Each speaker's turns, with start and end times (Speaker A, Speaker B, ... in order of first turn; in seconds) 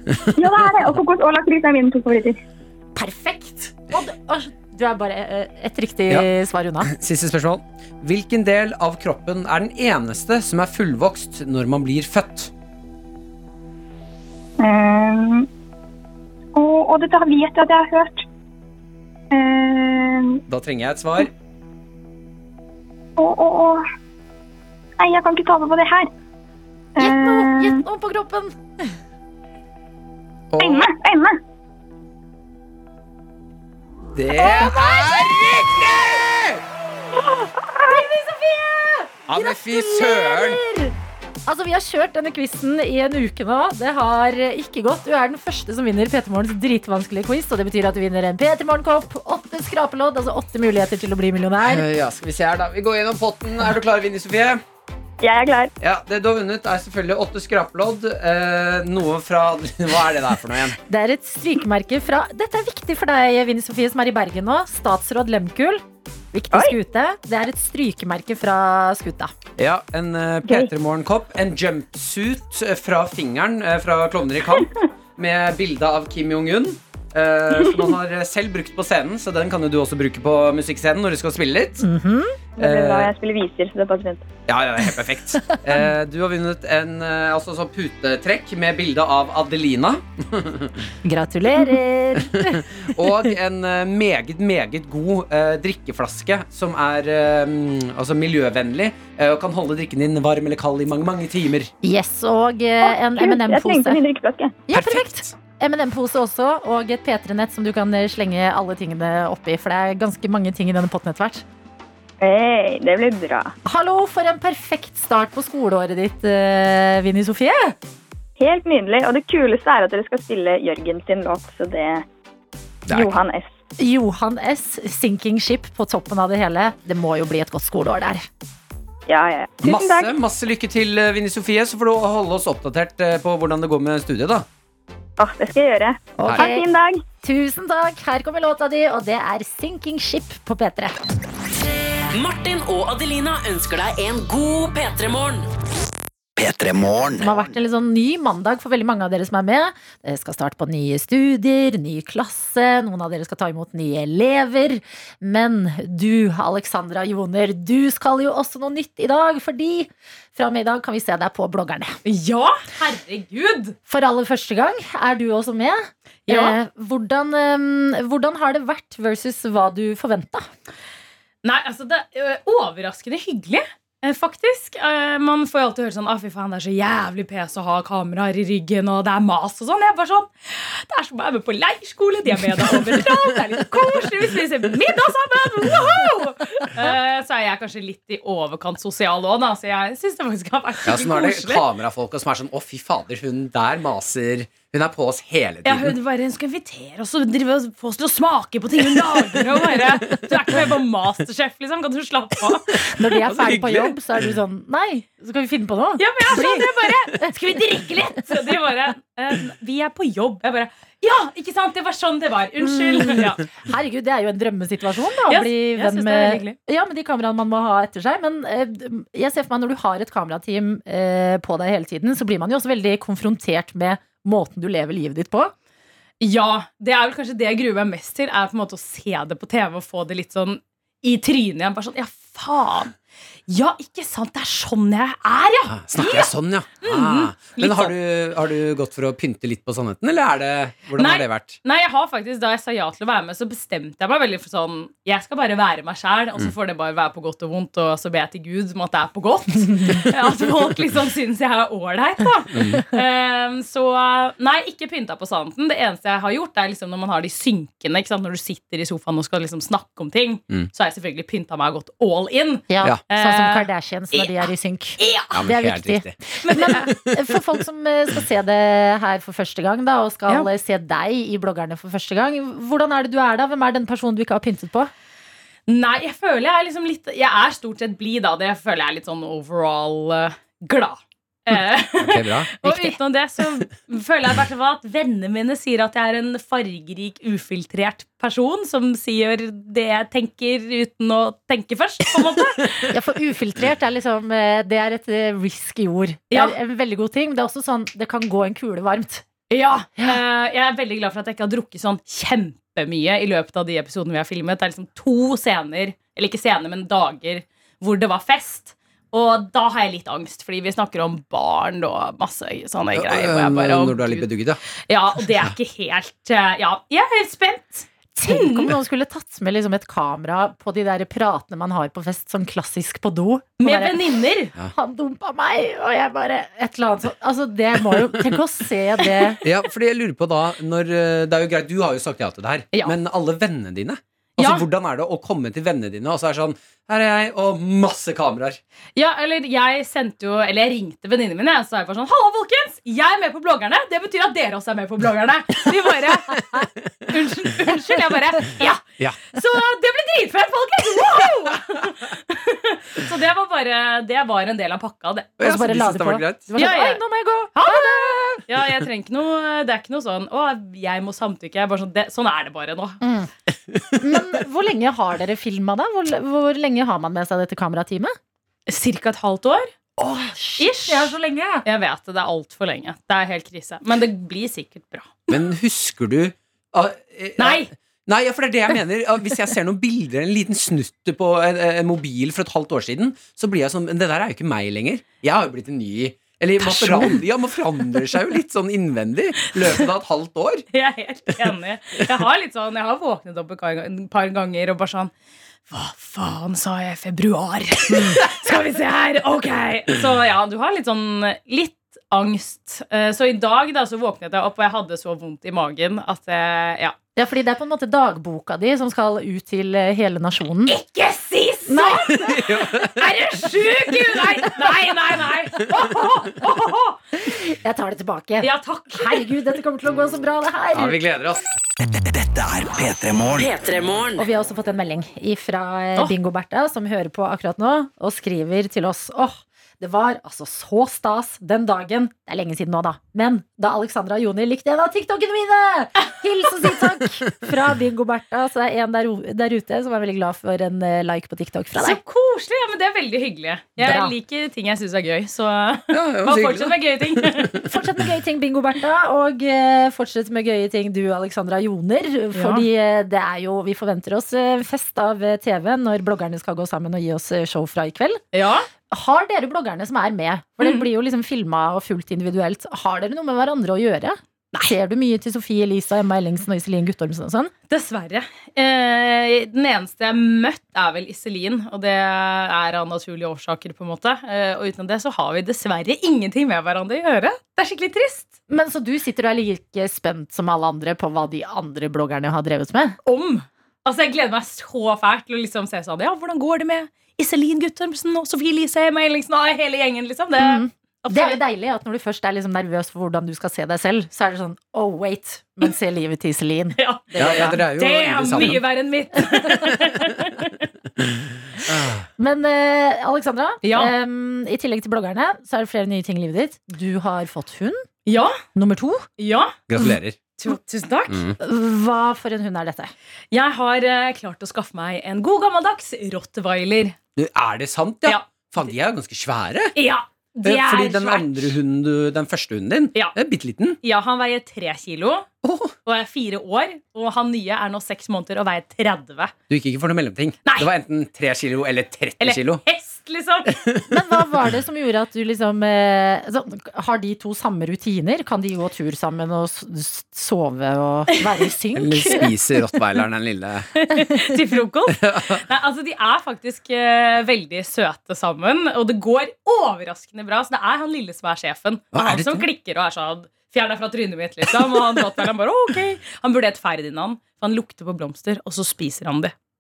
Speaker A: 0.4-2.4, 14.6-15.5, 16.6-18.3, 19.3-20.4, 23.2-23.8, 25.0-26.1, 27.0-27.8, 30.6-31.4, 37.3-38.0, 55.2-55.7, 70.5-70.7, 82.6-84.3, 102.8-104.6, 112.2-113.5, 118.4-122.0, 122.9-123.6, 129.1-130.1, 135.2-137.0
Speaker B: 3.0-6.9, 27.0-28.9, 34.4-35.3, 37.9-40.9, 41.5-51.8, 60.9-69.3, 81.8-82.4, 91.0-93.1, 101.8-104.0, 104.7-111.4, 113.7-117.8, 123.8-128.2, 136.2-136.6, 137.2-141.0, 147.2-162.0, 163.9-170.5, 202.8-207.3, 212.6-225.5, 262.7-274.9, 282.6-283.0, 292.9-299.2, 318.2-329.4, 355.4-358.5, 363.0-363.3, 363.9-368.1, 370.0-371.7, 386.8-387.1, 397.9-398.2, 407.2-410.8, 411.7-412.4, 417.2-421.0, 424.2-442.0, 443.8-444.1, 447.6-458.2, 458.9-467.5, 478.5-483.0, 490.4-497.6, 502.2-507.8, 508.5-509.1, 511.4-512.9, 533.9-542.3
Speaker C: 6.8-12.5, 20.5-21.3, 30.5-30.9, 34.1-36.6, 39.3-40.6, 51.6-54.6, 55.8-60.8, 69.6-81.8, 82.6-83.1, 84.5-90.8, 92.2-101.7, 104.7-105.3, 122.9-123.1, 129.6-134.5, 190.8-195.9, 198.9-200.7, 203.1-204.0, 235.7-241.6, 252.5-252.8, 265.3-267.4, 282.0-282.5, 312.9-314.6, 329.4-338.6, 355.4-356.5, 363.7-364.0, 375.3-390.6, 412.3-413.1, 420.7-421.4, 445.9-447.7, 497.2-498.7, 501.6-502.1, 509.7-510.2, 511.1-511.4, 517.2-519.7, 520.4-523.8, 525.4-525.7, 529.5-532.6, 541.8-543.7, 545.0-545.4, 551.9-552.5, 554.5-555.0
Speaker D: 142.1-145.5, 423.4-424.2
Speaker E: 146.4-147.4, 422.1-423.5
Speaker F: 162.1-163.8, 166.3-166.6, 171.4-191.7, 195.7-202.8, 206.0-213.4, 215.3-216.6, 226.2-232.9, 233.5-237.9, 241.0-265.5, 266.4-266.9, 275.7-292.9, 296.3-296.6, 299.5-314.3, 314.9-318.7, 323.6-324.5, 334.4-334.6, 339.0-355.5, 356.6-357.0, 357.6-363.0, 368.7-369.7, 370.6-375.4, 377.4-377.7, 389.5-389.9, 390.7-395.1, 395.7-407.0, 410.7-417.0, 418.4-419.3, 441.8-447.6, 452.4-452.7, 458.3-458.7, 460.6-460.9, 467.7-478.3, 483.1-491.4, 496.8-500.7, 503.6-503.9, 508.1-508.4, 509.2-509.8, 510.4-511.3, 513.3-517.0, 519.8-521.5, 523.8-525.3, 525.9-529.3, 530.5-530.7, 532.2-533.6, 543.8-559.3